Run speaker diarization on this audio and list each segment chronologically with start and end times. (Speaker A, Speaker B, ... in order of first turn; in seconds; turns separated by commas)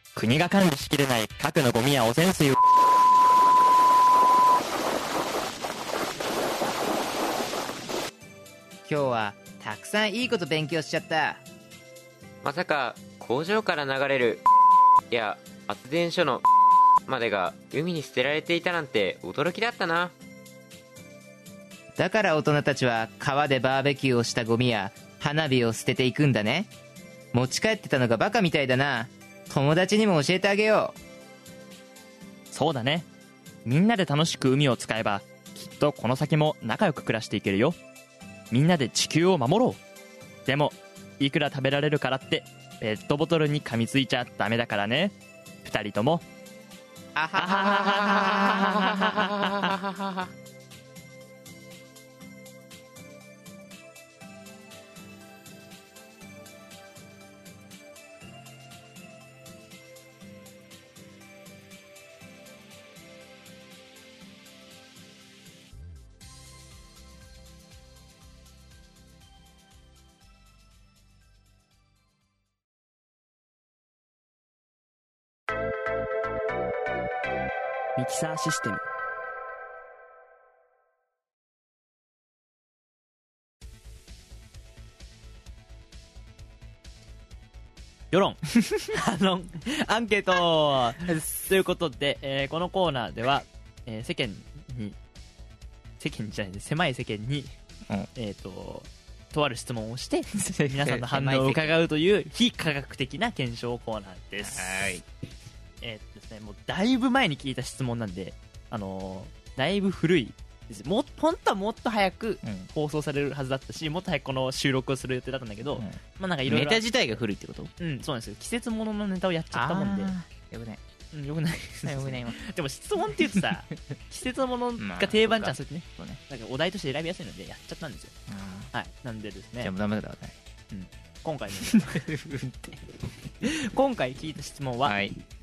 Speaker A: 0.1-2.6, Speaker B: 8.9-11.4, Speaker C: 12.4-14.4, Speaker C: 15.1-16.4, Speaker C: 17.1-20.1, Speaker B: 22.0-26.7, Speaker B: 27.3-31.0, Speaker A: 32.5-33.1, Speaker A: 33.6-37.8, Speaker A: 38.5-39.8, Speaker A: 40.5-46.2, Speaker B: 47.2-49.5, Speaker A: 47.4-49.3, Speaker A: 78.0-78.8, Speaker A: 88.1-95.0, Speaker A: 96.0-97.6, Speaker A: 98.2-104.9, Speaker B: 100.3-101.8, Speaker B: 104.4-105.1, Speaker A: 105.8-116.8, Speaker B: 112.4-112.7, Speaker B: 115.7-117.7, Speaker A: 117.8-120.2, Speaker B: 119.5-120.8, Speaker A: 121.1-128.2, Speaker B: 121.8-122.4, Speaker B: 124.8-126.2, Speaker B: 128.3-128.7, Speaker A: 128.7-129.7, Speaker B: 129.6-130.4, Speaker A: 130.7-132.1, Speaker B: 131.7-132.8, Speaker A: 133.4-135.0, Speaker B: 134.8-135.1